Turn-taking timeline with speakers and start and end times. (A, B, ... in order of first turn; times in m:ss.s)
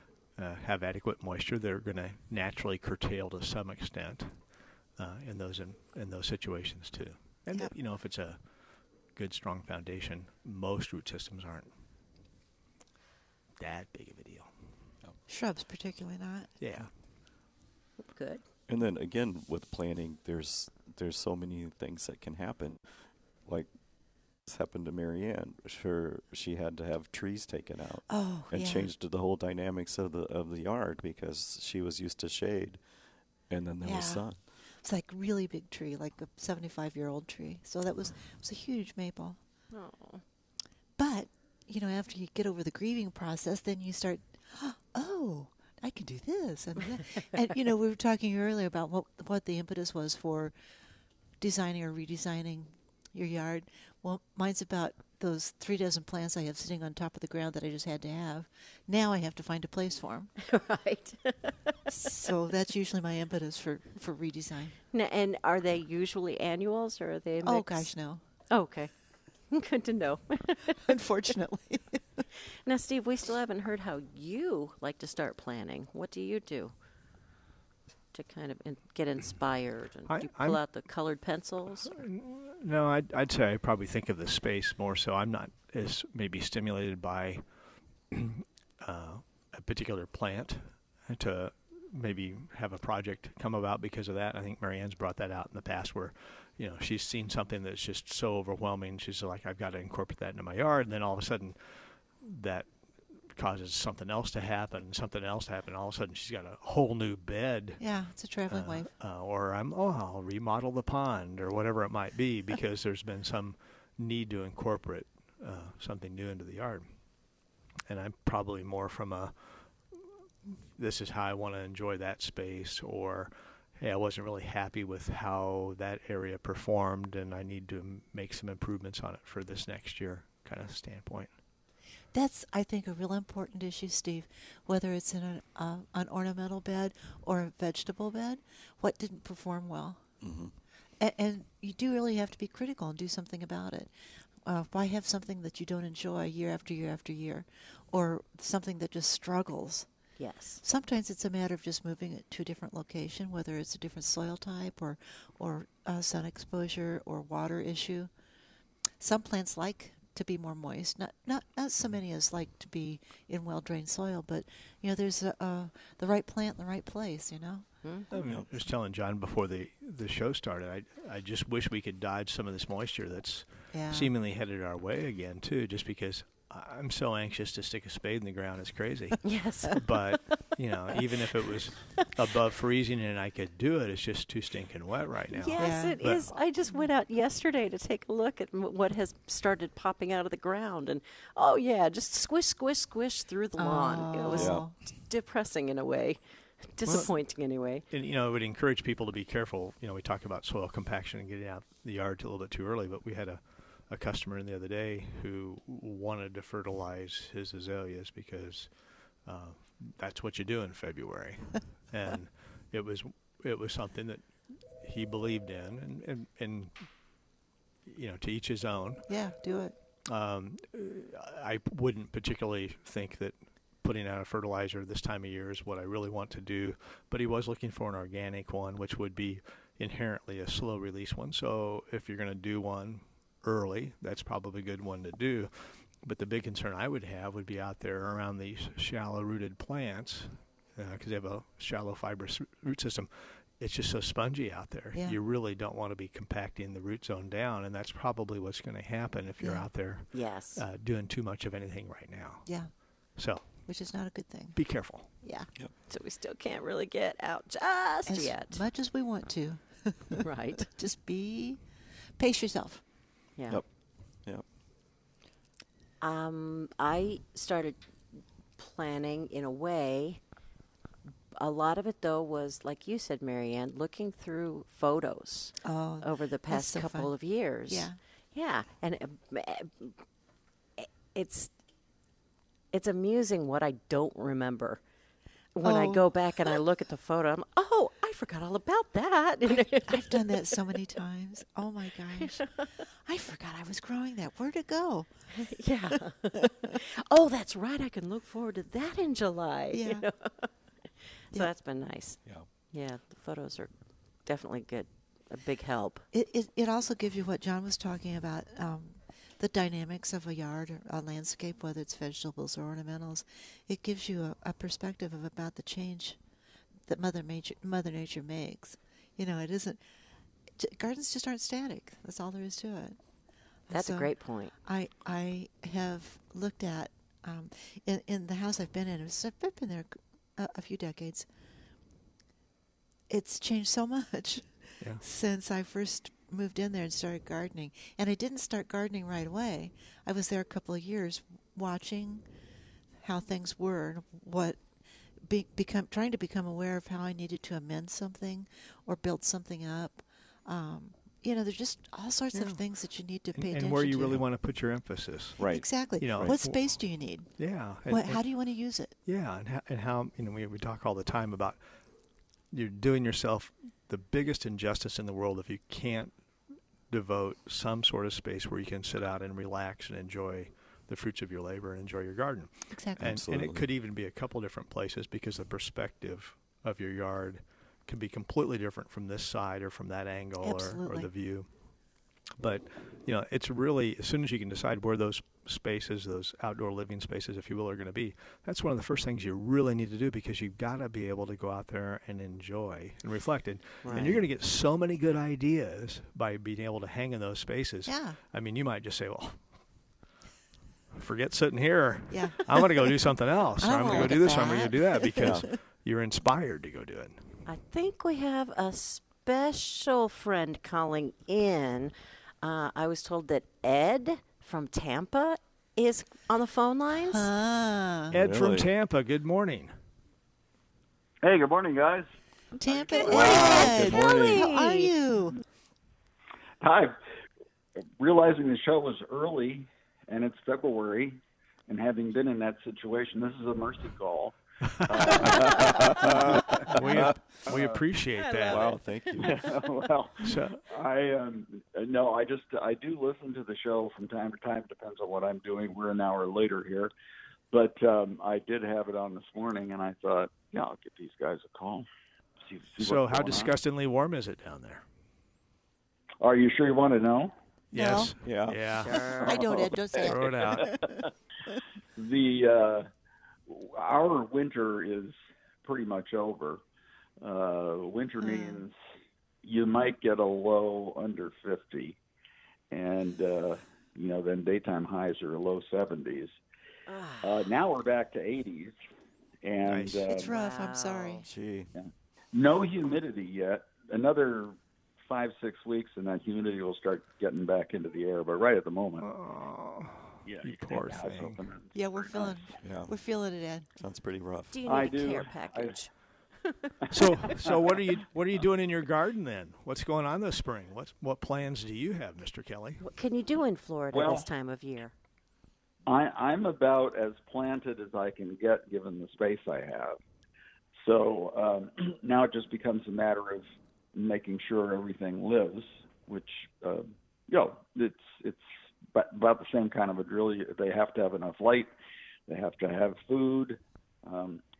0:00.4-0:04.3 A
0:05.0-0:08.4 A
0:09.1-0:11.7 A
0:13.6-0:14.5 A
0:15.3-0:16.5 B
0:16.6-0:16.9 A
0:18.0-0:18.4 C
0:18.7-0:22.8 D
0:24.4-0:32.8 D
0:28.1-0:28.9 B
0:33.5-0:34.4 D
0:33.8-0:34.3 B
0:34.8-0:39.4 B
0:39.7-0:40.2 C
0:41.0-0:50.5 B
0:51.4-1:00.3 B
1:00.4-1:01.9 C
1:01.9-1:04.8 B
1:04.9-1:07.9 C
1:07.4-1:08.2 B
1:08.5-1:08.9 C
1:09.5-1:10.9 C
1:10.8-1:12.2 B
1:12.4-1:16.7 C
1:18.1-1:22.0 C
1:20.1-1:20.6 A
1:21.8-1:27.4 A
1:28.1-1:42.7 A
1:43.3-1:47.8 A
1:47.8-1:48.9 B
1:48.5-1:56.8 A
1:57.9-1:59.6 A
2:00.4-2:11.3 A
2:12.1-2:20.0 B
2:20.2-2:20.5 D
2:21.0-2:23.9 B
2:24.4-2:29.9 B
2:30.2-2:30.6 C
2:30.6-2:38.1 B
2:39.0-2:47.7 B
2:48.1-3:06.3 A
2:48.1-2:48.5 D
2:53.7-2:54.1 B
2:59.2-2:59.8 C
3:05.3-3:17.8 C
3:05.6-3:06.0 B
3:13.6-3:14.7 B
3:14.3-3:14.6 D
3:16.9-3:17.1 A
3:17.9-3:28.7 A
3:29.2-3:34.2 A
3:34.8-3:36.8 A
3:37.8-3:39.1 A
3:39.1-3:39.7 B
3:40.1-4:12.4 A
4:04.9-4:05.2 B
4:09.4-4:09.7 B
4:10.1-4:10.6 C
4:13.2-4:13.5 A
4:13.6-4:14.6 B
4:14.6-4:15.1 A
4:15.2-4:15.5 B
4:15.9-4:18.6 C
4:18.1-4:21.6 B
4:20.2-4:20.7 C
4:22.2-4:22.8 B
4:26.0-4:27.8 C
4:28.6-4:30.2 C
4:31.4-4:40.0 C
4:35.6-4:37.1 B
4:37.7-4:38.0 B
4:40.8-4:41.5 C
4:42.7-4:44.8 C
4:45.5-4:50.7 C
4:45.6-4:46.6 B
4:49.4-4:52.5 B
4:52.2-4:52.7 C
4:53.0-4:55.9 B
4:55.3-5:00.5 C
4:59.7-5:00.0 B
5:01.3-5:03.7 C
5:04.2-5:06.0 C
5:06.1-5:16.2 B
5:16.8-5:19.8 B
5:20.6-5:23.0 B
5:23.7-5:31.2 B
5:23.7-5:24.5 C
5:33.1-5:42.2 B
5:43.0-5:44.6 B
5:45.2-5:54.2 B
5:52.3-5:52.6 A
5:53.3-5:55.4 A
5:55.4-5:56.4 D
5:55.4-5:57.3 B
5:56.0-5:56.6 A
5:57.4-5:58.2 A
5:57.9-5:58.9 B
5:59.0-6:01.6 A
6:02.5-6:06.1 A
6:06.9-6:21.5 A
6:12.7-6:13.1 B
6:13.0-6:13.6 D
6:20.4-6:21.1 B
6:22.4-6:39.4 A
6:33.8-6:34.2 C
6:37.8-6:38.2 B
6:40.9-6:47.2 A
6:42.1-6:43.0 B
6:43.6-6:45.5 B
6:45.2-6:45.4 D
6:47.4-6:57.3 C
6:57.0-6:58.1 B
6:58.1-6:58.7 D
6:58.1-6:59.7 A
7:01.2-7:02.1 E
7:02.6-7:05.4 B
7:02.6-7:03.5 E
7:03.0-7:04.9 C
7:03.0-7:04.5 D
7:06.6-7:07.0 E
7:08.0-7:17.8 E
7:14.8-7:15.9 A
7:15.4-7:17.1 D
7:16.5-7:18.7 A
7:18.2-7:19.5 C
7:18.5-7:19.3 D
7:19.2-7:26.9 E
7:20.2-7:20.6 A
7:27.5-7:31.9 E
7:32.4-7:33.5 E
7:32.8-7:34.8 A
7:36.2-7:37.3 E
7:37.7-7:39.0 A
7:37.7-7:38.1 B
7:38.2-7:38.6 D
7:38.7-7:39.4 C
7:39.2-7:41.0 B
7:39.3-7:41.1 E
7:40.0-7:40.7 A
7:42.0-7:42.9 E
7:43.5-7:46.6 E
7:47.2-7:48.8 E
7:48.2-7:48.6 B
7:49.4-7:52.0 E
7:52.7-7:56.4 E
7:56.9-7:57.5 C
7:57.2-7:58.8 E
7:59.4-8:00.3 E
7:59.6-8:00.1 A
8:00.1-8:01.2 B
8:00.2-8:01.2 C
8:01.2-8:01.7 D
8:01.7-8:09.1 E
8:09.0-8:11.4 A
8:10.2-8:12.6 E
8:11.7-8:13.7 B
8:12.6-8:12.9 D
8:13.8-8:14.6 D
8:14.5-8:15.9 C
8:14.6-8:15.8 E
8:16.4-8:16.7 C
8:16.8-8:17.7 E
8:16.9-8:22.8 A
8:22.8-8:24.9 C
8:23.9-8:24.3 E
8:25.8-8:30.0 E
8:30.8-8:41.7 E
8:42.3-8:44.4 E